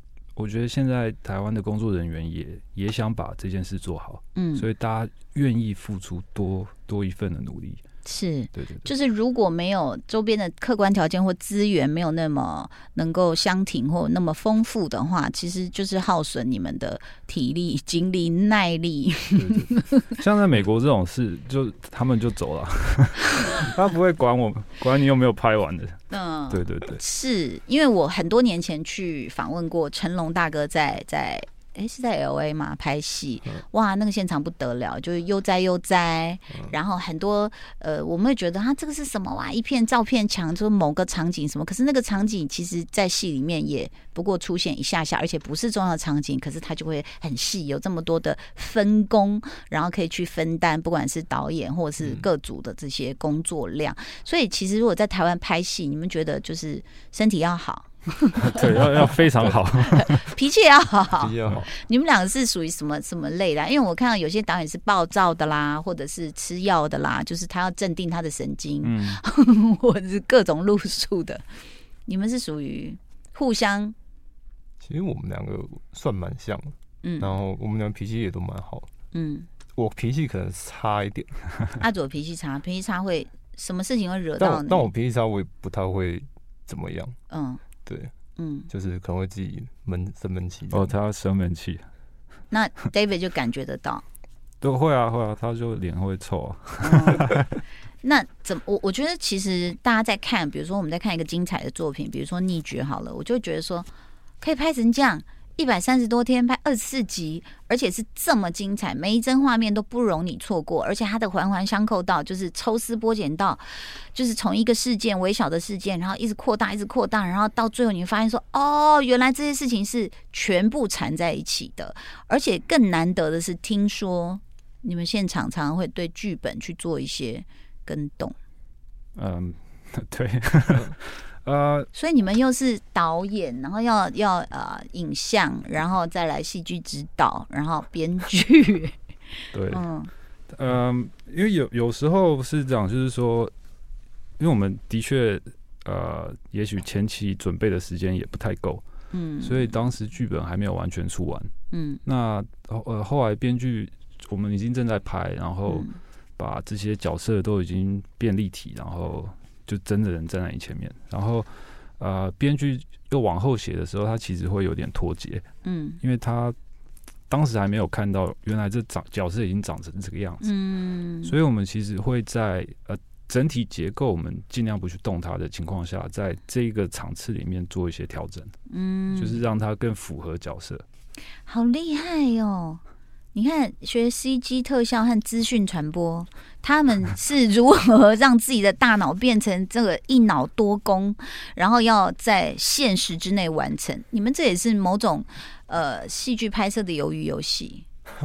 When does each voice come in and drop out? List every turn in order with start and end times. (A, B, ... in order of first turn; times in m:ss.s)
0:00.4-0:07.8 A
0:04.4-0:04.7 B
0:08.0-0:20.1 B
0:08.6-0:08.9 A
0:19.4-0:27.0 A
0:26.1-1:11.4 B
0:58.4-1:00.3 A
1:01.2-1:01.7 C
1:08.8-1:09.2 A
1:12.1-1:14.0 B
1:14.8-1:18.9 C
1:17.0-1:17.4 B
1:19.1-1:19.5 B
1:19.8-1:21.4 C
1:21.8-1:24.9 B
1:24.4-1:27.2 C
1:27.3-1:27.6 B
1:27.9-1:28.1 C
1:28.4-1:28.7 B
1:28.7-1:31.0 C
1:30.7-1:31.8 A
1:32.5-1:34.0 B
1:34.6-1:37.5 A
1:36.8-1:37.3 B
1:38.0-1:43.9 B
1:44.4-2:08.4 B
2:09.2-2:11.9 A
2:11.9-2:19.0 B
2:19.5-2:19.9 A
2:19.7-2:20.1 B
2:20.5-2:23.5 A
2:24.4-2:28.8 A
2:29.1-2:29.8 B
2:29.4-2:31.5 A
2:31.7-2:32.0 B
2:32.0-2:45.4 A
2:35.7-2:36.0 B
2:45.6-2:46.0 B
2:46.0-2:46.6 A
2:47.3-2:50.5 A
2:50.4-2:51.3 B
2:51.2-2:58.5 A
2:58.7-2:59.4 B
2:59.1-3:00.8 A
3:01.5-3:02.8 B
3:03.3-3:17.9 B